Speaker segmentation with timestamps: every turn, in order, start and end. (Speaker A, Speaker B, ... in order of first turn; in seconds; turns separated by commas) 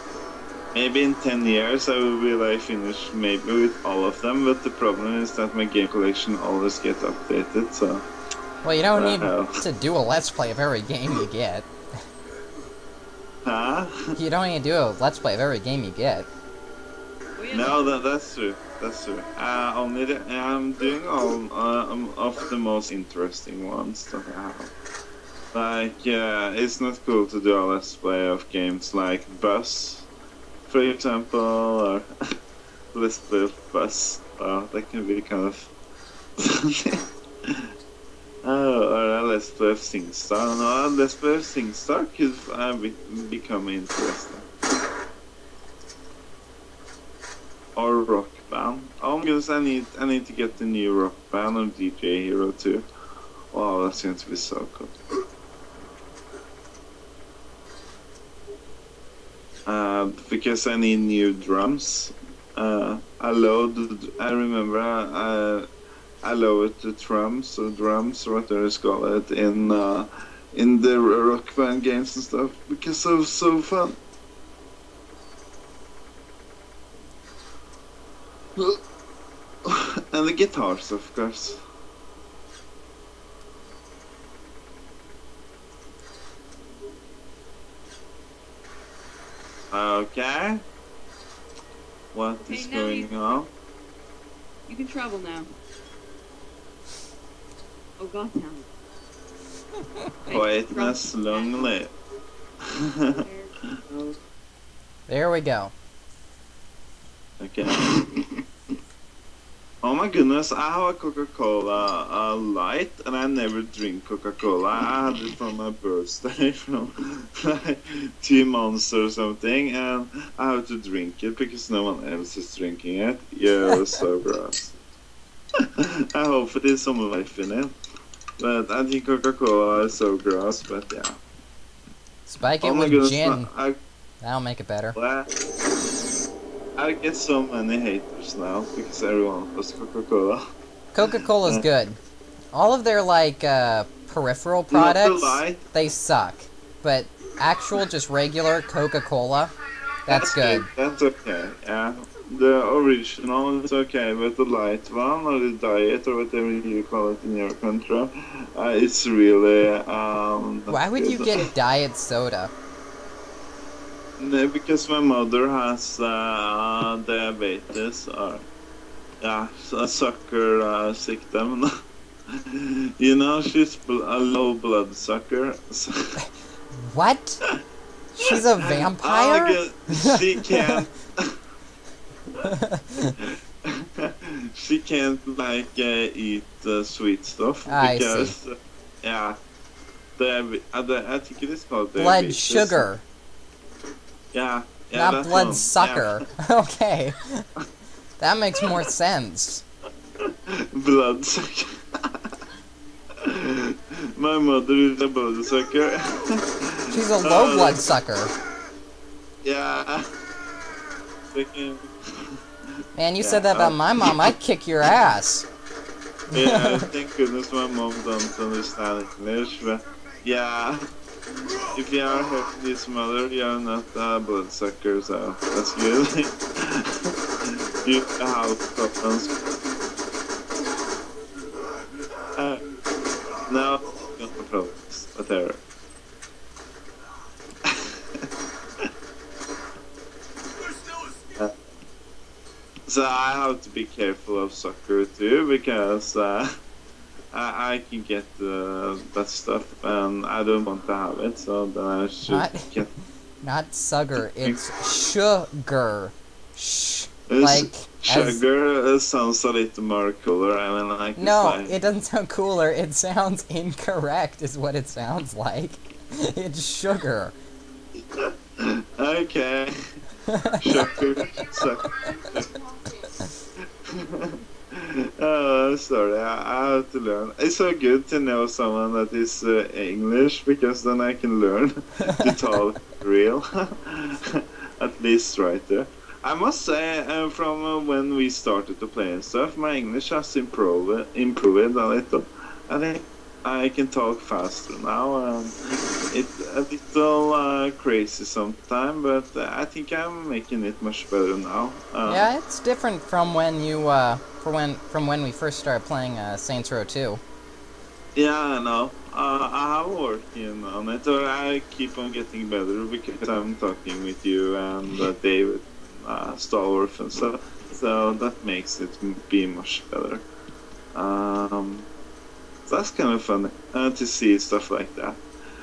Speaker A: 0.7-8.0, Speaker B: 8.6-11.7, Speaker A: 8.9-9.6, Speaker A: 13.4-13.9, Speaker B: 14.2-16.3, Speaker C: 17.4-17.8, Speaker A: 17.5-24.7, Speaker A: 25.5-30.1, Speaker A: 30.7-32.0, Speaker A: 32.9-35.7, Speaker A: 36.4-37.5, Speaker A: 38.4-44.4, Speaker A: 47.8-52.8, Speaker A: 53.5-54.9, Speaker A: 59.7-65.7, Speaker A: 66.2-74.0, Speaker A: 79.7-81.6, Speaker A: 89.7-90.6, Speaker A: 92.1-93.5, Speaker C: 92.4-93.4, Speaker C: 94.7-95.5, Speaker C: 98.0-98.7, Speaker C: 100.2-101.7, Speaker A: 100.3-101.9, Speaker C: 103.0-104.1, Speaker B: 105.1-105.7, Speaker A: 107.4-108.2, Speaker A: 109.8-124.8, Speaker B: 123.7-124.0, Speaker A: 125.8-127.7, Speaker A: 128.4-131.2, Speaker B: 132.2-133.5, Speaker A: 132.6-133.8, Speaker B: 134.2-135.0, Speaker A: 134.9-135.3, Speaker A: 136.8-140.4, Speaker B: 140.9-142.0, Speaker B: 142.5-149.5, Speaker A: 144.7-145.6, Speaker B: 150.0-150.7, Speaker A: 150.1-161.4, Speaker B: 160.7-162.5, Speaker A: 164.2-168.4, Speaker A: 169.2-171.7, Speaker A: 172.5-176.2, Speaker B: 176.8-177.4, Speaker B: 178.2-180.9, Speaker A: 178.9-181.3, Speaker B: 182.4-183.1, Speaker A: 183.2-189.4, Speaker B: 187.7-188.3, Speaker A: 190.2-192.8, Speaker B: 192.0-193.0, Speaker A: 194.3-196.2, Speaker B: 194.9-197.4, Speaker B: 198.2-199.6, Speaker A: 200.2-202.2, Speaker A: 203.2-207.8, Speaker B: 206.9-208.3, Speaker A: 209.4-210.1, Speaker A: 211.3-211.9, Speaker B: 212.9-215.5, Speaker A: 213.2-214.3, Speaker B: 216.3-216.8, Speaker A: 216.3-220.8, Speaker A: 221.6-229.4, Speaker A: 232.3-232.6, Speaker A: 233.5-235.6, Speaker A: 237.6-238.2, Speaker A: 242.9-246.5, Speaker A: 247.3-252.9, Speaker B: 252.3-252.7, Speaker B: 253.4-258.4, Speaker A: 257.3-261.7, Speaker B: 261.2-267.3, Speaker A: 268.0-269.7, Speaker B: 270.3-270.6, Speaker A: 270.6-272.5, Speaker A: 273.9-295.5, Speaker B: 282.0-282.4, Speaker A: 296.1-302.3, Speaker B: 302.1-307.2, Speaker A: 308.1-320.2, Speaker A: 320.9-321.9, Speaker A: 322.6-325.2